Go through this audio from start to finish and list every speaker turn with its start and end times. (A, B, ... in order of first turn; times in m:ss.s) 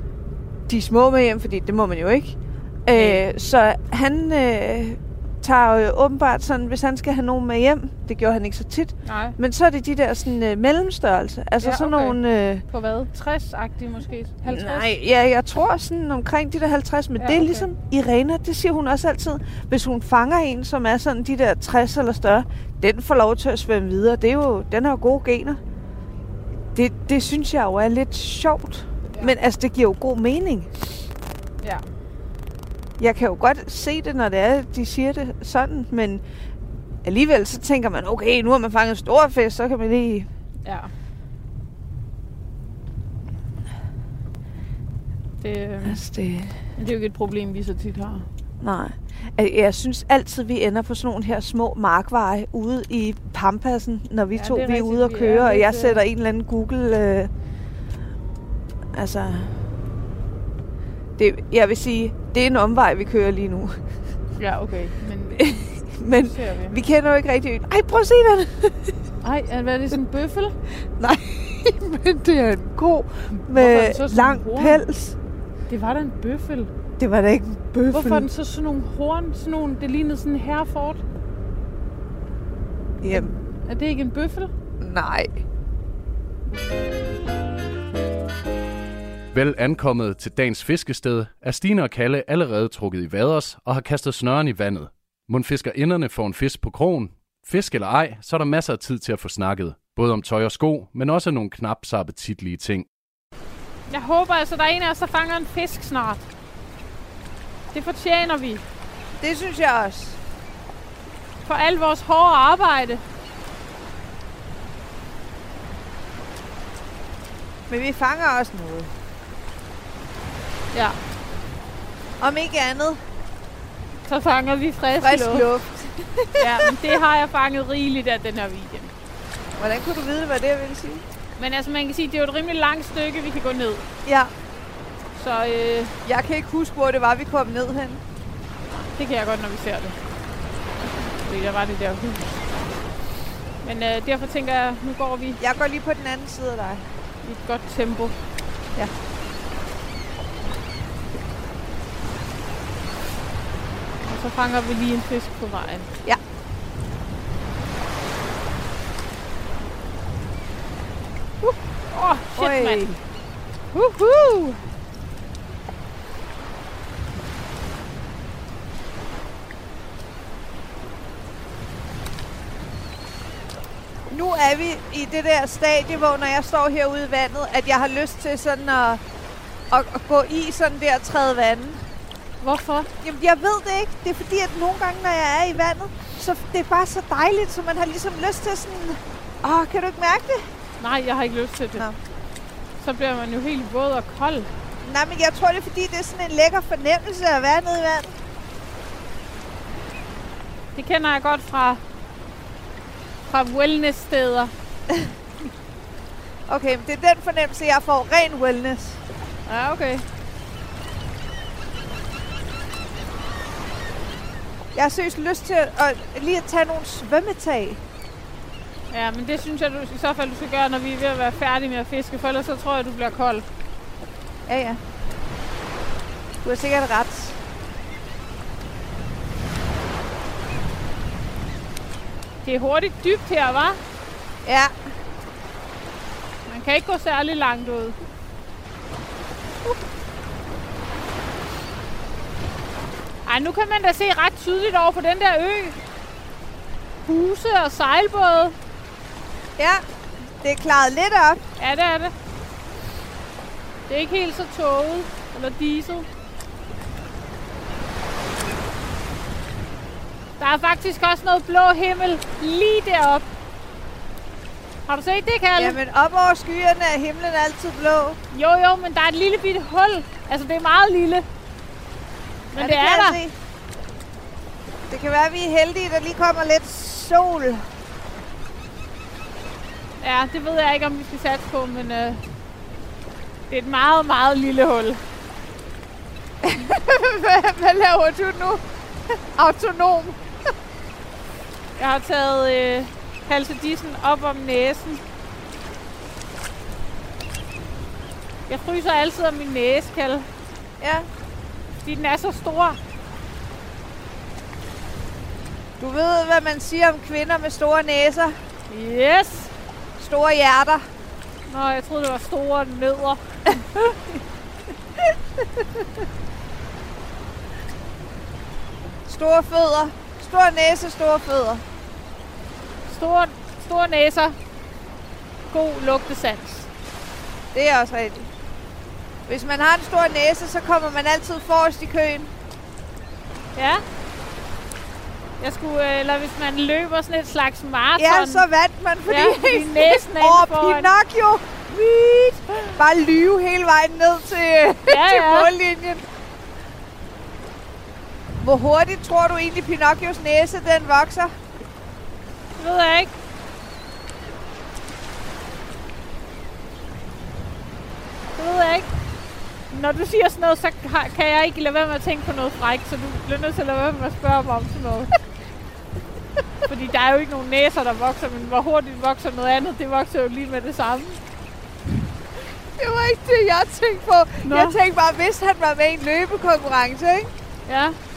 0:00.7-0:12.6 A
0:02.9-0:03.2 B
0:09.0-0:09.4 B
0:11.6-0:14.9 B
0:14.4-0:25.6 A
0:17.2-0:17.7 B
0:26.7-0:30.9 A
0:33.0-0:36.2 A
0:37.0-0:40.3 A
0:40.6-0:40.9 B
0:45.4-0:46.0 B
0:45.8-0:46.6 A
0:46.8-0:48.3 B
0:48.6-0:57.3 A
0:54.3-0:56.0 B
0:58.9-0:59.6 A
1:01.2-1:03.8 A
1:04.4-1:05.5 B
1:05.3-1:09.0 A
1:06.1-1:06.8 B
1:09.2-1:10.5 B
1:11.0-1:15.2 A
1:13.3-1:14.8 B
1:15.7-1:16.7 B
1:17.0-1:18.3 A
1:17.9-1:21.0 B
1:23.0-1:23.3 A
1:23.1-1:24.5 B
1:24.8-1:25.4 A
1:29.3-1:42.8 C
1:43.9-1:46.3 B
1:47.7-1:48.6 B
1:49.2-1:50.2 A
1:51.4-1:53.0 B
1:57.7-1:58.9 A
2:02.2-2:03.0 A
2:04.1-2:05.4 B
2:05.0-2:07.0 A
2:06.4-2:08.9 B
2:09.6-2:11.0 A
2:11.4-2:13.8 B
2:14.0-2:14.3 A
2:15.1-2:15.9 B
2:16.0-2:18.0 A
2:18.8-2:20.0 B
2:21.0-2:22.4 B
2:23.6-2:25.4 B
2:25.4-2:26.8 A
2:27.2-2:28.2 B
2:34.0-2:35.9 B
2:41.4-2:43.0 B
2:42.4-2:42.9 A
2:43.7-2:44.6 B
2:54.1-2:59.0 A
2:59.7-3:01.8 A
3:02.4-3:02.9 B
3:03.0-3:10.4 A
3:10.8-3:11.9 B
3:12.8-3:14.5 B
3:14.8-3:18.1 A
3:20.7-3:21.8 B
3:23.3-3:24.5 B
3:26.5-3:29.0 A
3:29.5-3:30.0 B
3:34.7-3:37.8 A
3:38.9-3:43.4 B
3:44.5-3:44.8 A
3:46.4-3:47.4 A
3:52.4-3:53.8 B
3:54.4-3:54.7 A
3:56.5-3:58.0 B
4:03.2-4:05.8 B
4:07.0-4:08.6 B
4:09.6-4:09.8 A
4:10.4-4:11.4 A
4:11.6-4:12.1 B
4:13.9-4:16.1 B
4:20.4-4:23.2 B
4:24.9-4:25.8 B
4:25.6-4:28.2 A
4:28.3-4:31.2 B
4:32.5-4:33.2 B
4:32.6-4:33.3 A
4:34.9-4:37.6 A
4:40.0-4:42.2 B
4:43.5-4:45.0 B
4:46.4-4:48.6 A
4:49.3-4:50.2 A
4:51.8-4:55.0 B
4:58.5-5:00.3 B
5:00.8-5:01.1 A
5:01.8-5:02.8 B
5:05.8-5:08.4 A
5:08.7-5:09.5 B
5:10.0-5:10.8 A
5:11.5-5:14.0 B
5:19.0-5:21.6 A
5:22.9-5:24.4 B
5:25.5-5:26.7 B
5:27.5-5:28.3 A
5:29.3-5:32.3 A
5:33.5-5:33.8 B
5:35.4-5:38.4 B
5:38.0-5:46.0 A
5:39.1-5:40.9 B
5:44.9-5:45.5 B
5:48.4-5:51.3 A
5:52.6-5:53.1 B
5:58.4-5:58.9 B
5:59.7-6:05.1 B
6:06.7-6:11.2 B
6:12.8-6:17.3 A
6:14.4-6:14.8 B
6:17.7-6:18.0 B